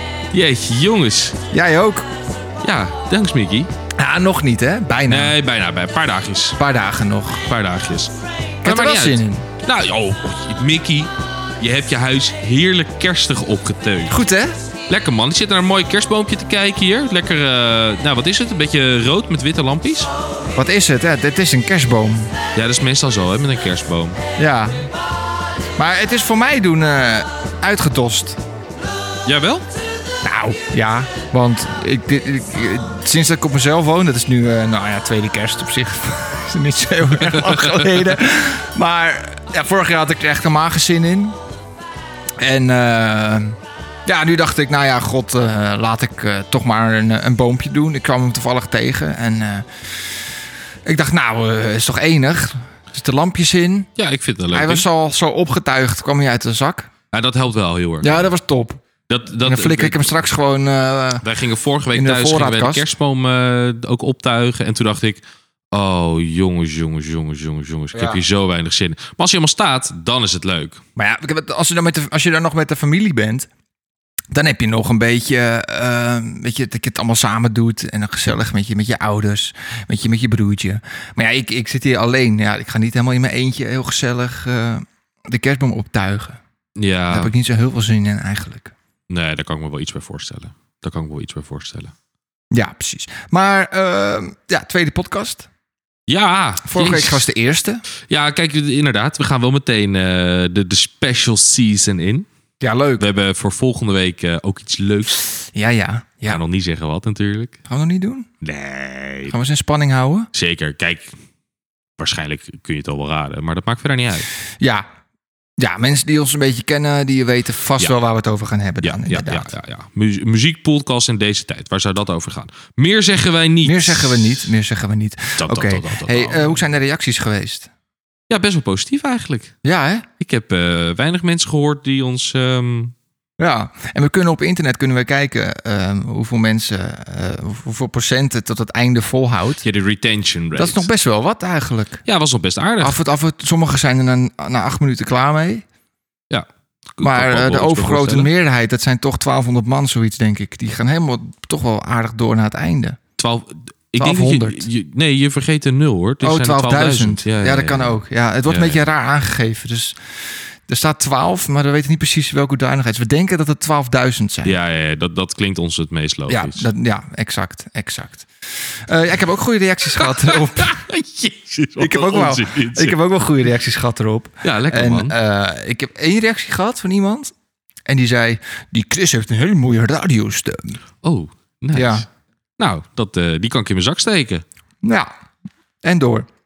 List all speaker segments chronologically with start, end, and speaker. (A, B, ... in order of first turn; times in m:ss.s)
0:00.3-0:01.4 A
0:01.5-0:02.1 B
0:02.6-0:03.7 A
0:04.0-0:05.3 B
0:05.1-0:06.6 A
0:06.6-0:07.4 B
0:07.4-0:08.1 A
0:08.6-0:09.4 B
0:08.6-0:14.2 A
0:14.1-0:14.6 B
0:14.9-0:20.1 A
0:20.5-0:22.3 B
0:22.6-0:24.2 A
0:24.4-0:24.9 B
0:25.8-0:28.4 B
0:29.2-0:29.6 A
0:30.2-0:41.4 B
0:37.2-0:37.7 A
0:42.4-0:50.3 B
0:50.8-0:53.9 B
0:54.0-0:54.8 A
0:54.5-0:56.9 B
0:57.1-0:58.3 A
0:58.0-0:58.8 B
0:59.1-1:00.2 A
0:59.4-1:01.2 B
1:01.2-1:05.2 A
1:01.9-1:02.9 B
1:05.7-1:10.8 A
1:07.9-1:08.2 B
1:11.0-1:13.5 B
1:14.3-1:26.4 B
1:26.8-1:27.3 A
1:27.1-1:28.7 B
1:29.1-1:31.9 A
1:32.5-1:35.5 B
1:36.1-1:37.3 A
1:36.6-1:37.8 B
1:38.1-1:42.3 A
1:42.6-1:43.1 B
1:43.0-1:45.2 A
1:45.5-1:46.4 B
1:46.3-1:47.6 A
1:47.7-1:48.3 B
1:48.4-1:49.3 A
1:49.3-1:50.3 B
1:50.3-1:51.1 A
1:52.0-1:54.3 A
1:54.6-1:54.8 B
1:55.6-1:59.5 B
1:58.8-2:04.5 A
2:03.6-2:07.7 B
2:05.4-2:06.5 A
2:08.3-2:09.5 A
2:09.6-2:10.1 B
2:10.2-2:12.9 A
2:13.4-2:19.6 B
2:19.6-2:20.9 A
2:20.5-2:22.0 B
2:22.0-2:23.0 A
2:22.8-2:25.6 B
2:26.3-2:28.3 A
2:27.0-2:33.0 B
2:33.2-2:38.8 A
2:34.0-2:34.7 B
2:36.2-2:44.6 B
2:44.4-2:46.7 A
2:46.3-2:50.7 B
2:50.0-2:53.0 A
2:51.8-2:57.3 B
2:54.4-2:55.2 A
2:57.8-3:00.8 B
3:01.0-3:02.0 A
3:01.7-3:02.0 B
3:02.6-3:04.4 A
3:04.8-3:05.1 B
3:05.8-3:06.3 B